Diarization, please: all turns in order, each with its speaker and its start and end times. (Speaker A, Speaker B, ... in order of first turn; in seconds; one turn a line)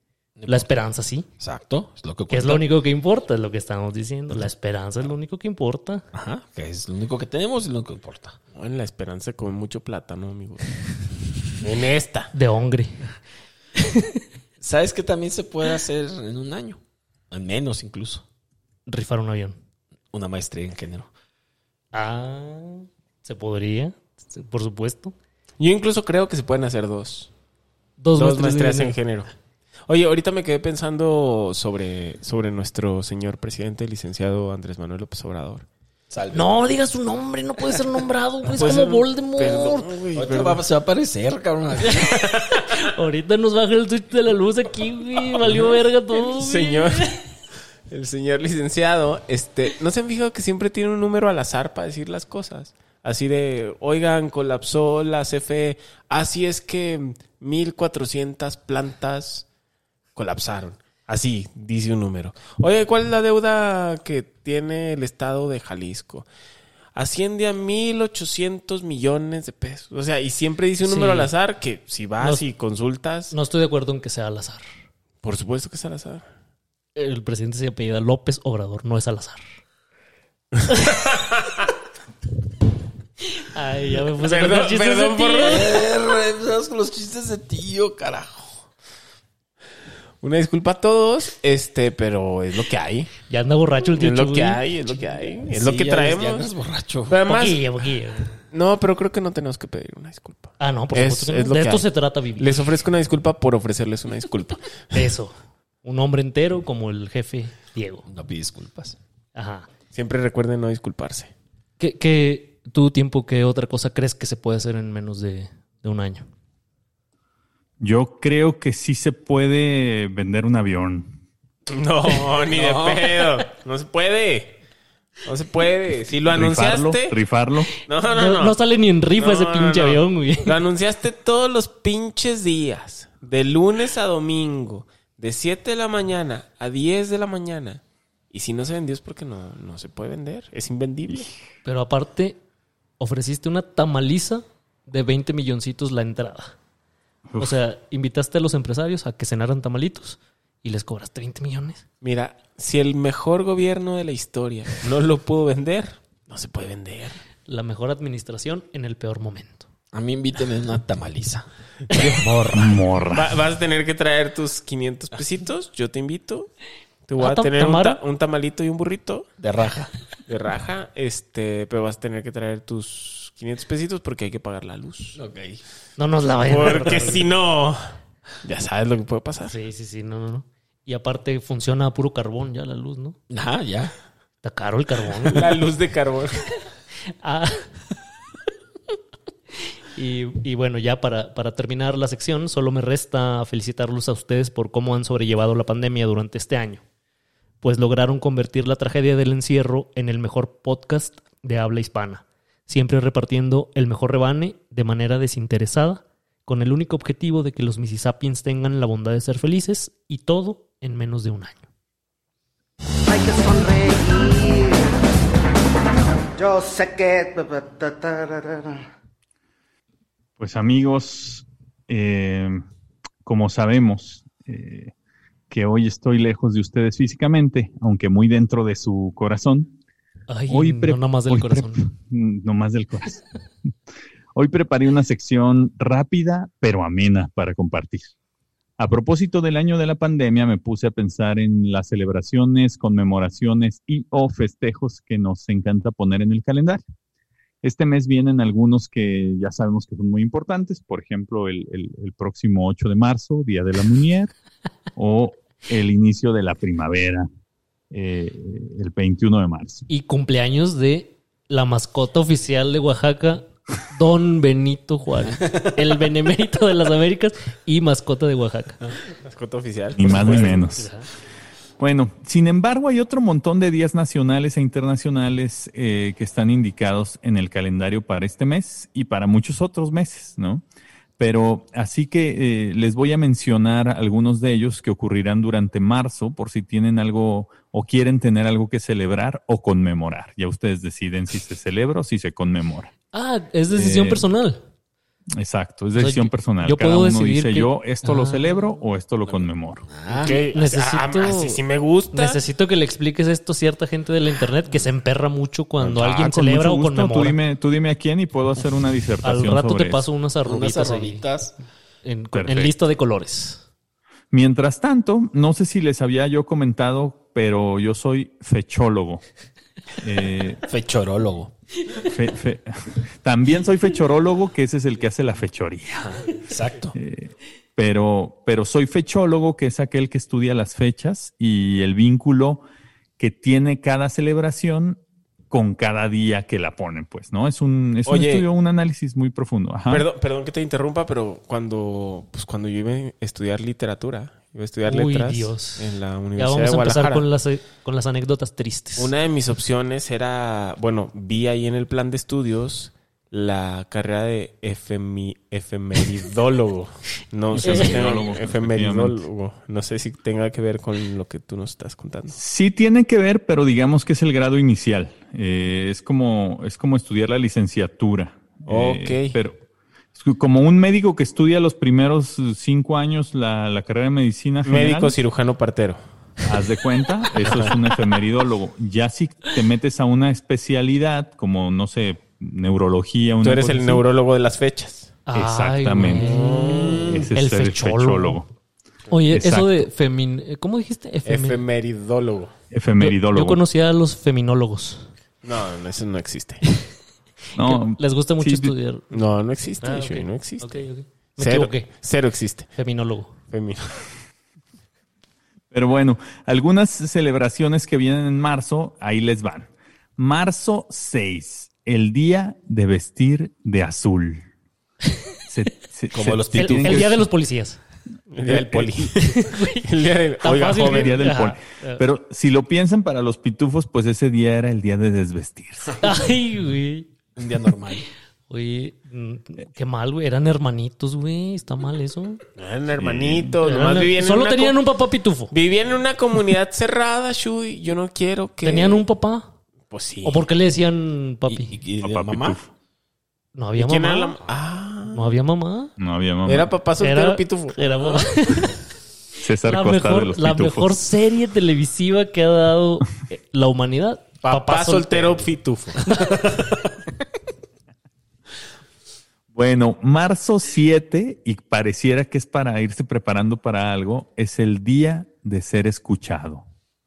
Speaker A: 0.4-0.7
Speaker B: 0.5-1.3
Speaker A: 1.4-2.6
Speaker B: 2.3-6.0
Speaker A: 6.1-8.4
Speaker C: 8.5-10.6
Speaker C: 11.6-12.3
Speaker B: 12.3-13.1
Speaker B: 13.8-14.2
Speaker A: 14.6-16.8
Speaker A: 17.3-18.2
Speaker B: 18.9-19.6
Speaker A: 20.1-21.1
Speaker B: 21.9-25.1
Speaker C: 25.6-27.3
Speaker B: 28.0-28.9
Speaker C: 28.1-29.3
Speaker C: 29.9-35.6
Speaker A: 36.1-36.5
Speaker B: 36.3-39.9
Speaker C: 38.5-40.6
Speaker A: 40.1-42.1
Speaker B: 41.9-47.2
Speaker C: 46.2-47.1
Speaker C: 47.9-59.5
Speaker C: 60.1-66.3
Speaker C: 66.9-73.3
Speaker B: 70.8-71.3
Speaker B: 72.2-72.4
Speaker B: 73.3-74.6
Speaker C: 75.2-76.2
Speaker B: 77.0-79.4
Speaker B: 83.3-85.8
Speaker C: 84.2-85.8
Speaker A: 85.4-88.6
Speaker C: 90.2-93.1
Speaker B: 93.3-94.6
Speaker C: 94.0-96.5
Speaker A: 95.5-97.2
Speaker C: 97.1-97.6
Speaker B: 97.2-98.3
Speaker C: 98.5-101.8
Speaker B: 100.6-102.6
Speaker C: 102.4-105.0
Speaker B: 104.9-108.0
Speaker A: 108.1-109.0
Speaker B: 109.3-109.7
Speaker C: 109.9-111.3
Speaker B: 111.8-116.2
Speaker D: 117.8-121.2
Speaker C: 121.7-124.6
Speaker A: 122.5-123.2
Speaker C: 125.2-127.2
Speaker D: 126.3-127.7
Speaker C: 127.8-128.6
Speaker B: 128.1-130.6
Speaker C: 129.2-141.3
Speaker B: 141.6-142.4
Speaker B: 143.0-146.5
Speaker B: 147.4-151.8
Speaker C: 152.0-157.2
Speaker B: 157.5-159.7
Speaker A: 159.9-162.6
Speaker B: 161.9-162.5
Speaker D: 162.5-163.3
Speaker C: 163.1-166.5
Speaker C: 167.1-169.3
Speaker B: 167.2-168.0
Speaker A: 169.4-169.9
Speaker C: 170.3-175.2
Speaker A: 175.2-175.6
Speaker B: 176.0-177.3
Speaker C: 176.4-177.8
Speaker C: 178.4-179.6
Speaker B: 179.5-183.2
Speaker A: 183.3-183.9
Speaker B: 184.4-185.6
Speaker C: 185.3-186.4
Speaker B: 187.2-187.7
Speaker B: 189.9-196.8
Speaker B: 197.6-211.6
Speaker E: 213.1-214.9
Speaker E: 216.3-218.9
Speaker D: 220.4-222.6
Speaker D: 223.2-224.9
Speaker D: 225.5-229.7
Speaker B: 230.3-231.9
Speaker D: 230.5-233.2
Speaker D: 234.3-238.1
Speaker D: 238.8-246.8
Speaker D: 247.6-254.3
Speaker D: 254.9-257.3
Speaker D: 257.9-259.9
Speaker B: 259.9-268.8
Speaker C: 269.2-270.6
Speaker D: 269.9-270.9
Speaker B: 270.0-271.1
Speaker D: 271.8-280.6
Speaker D: 281.2-292.9
Speaker B: 293.1-294.6
Speaker D: 293.7-294.2
Speaker D: 295.4-299.9
Speaker B: 296.0-298.7
Speaker A: 299.3-300.4
Speaker B: 300.2-301.6
Speaker C: 300.2-302.4
Speaker B: 302.1-307.4
Speaker D: 305.8-310.0
Speaker B: 309.2-311.2
Speaker A: 310.4-311.5
Speaker B: 312.0-313.6
Speaker D: 312.3-312.7
Speaker D: 314.3-319.2
Speaker D: 320.0-320.6
Speaker A: 320.6-321.5
Speaker D: 322.1-326.2
Speaker A: 326.4-326.9
Speaker D: 326.9-332.6
Speaker D: 333.2-335.0
Speaker D: 335.5-340.1
Speaker C: 338.1-338.4
Speaker C: 339.9-347.2
Speaker B: 344.9-349.1
Speaker C: 349.0-362.4
Speaker D: 357.5-359.2
Speaker B: 357.6-358.1
Speaker D: 362.3-369.6
Speaker C: 368.7-369.3
Speaker D: 370.1-375.1
Speaker C: 374.6-376.0
Speaker D: 376.4-384.0
Speaker C: 377.4-377.7
Speaker C: 383.4-385.1
Speaker B: 385.2-388.4
Speaker D: 385.3-386.4
Speaker C: 386.1-387.2
Speaker D: 387.0-388.5
Speaker B: 389.1-391.6
Speaker D: 389.3-389.9
Speaker C: 391.2-392.5
Speaker D: 392.7-393.6
Speaker B: 393.0-395.1
Speaker C: 395.4-396.6
Speaker B: 397.5-399.2
Speaker D: 397.6-398.7
Speaker C: 399.1-400.8
Speaker B: 399.8-401.9
Speaker C: 401.4-402.7
Speaker B: 402.7-403.3
Speaker C: 403.5-404.0
Speaker D: 405.7-414.5
Speaker D: 415.5-417.2
Speaker A: 416.1-417.1
Speaker B: 416.5-417.8
Speaker C: 418.3-421.2
Speaker D: 418.5-418.8
Speaker B: 419.1-422.0
Speaker D: 420.8-426.1
Speaker B: 426.0-427.1
Speaker A: 427.4-428.1
Speaker B: 428.5-432.4
Speaker C: 432.6-434.8
Speaker D: 433.0-433.6
Speaker B: 433.6-435.5
Speaker C: 435.5-439.0
Speaker B: 438.6-439.5
Speaker C: 439.9-440.4
Speaker B: 440.2-441.7
Speaker A: 441.5-442.6
Speaker D: 442.0-442.7
Speaker B: 443.5-444.4
Speaker C: 443.8-445.2
Speaker B: 445.1-445.9
Speaker D: 446.0-446.7
Speaker C: 446.4-448.6
Speaker B: 447.0-448.7
Speaker D: 449.4-451.0
Speaker B: 449.6-455.5
Speaker C: 454.4-456.6
Speaker B: 456.1-456.6
Speaker D: 459.5-466.6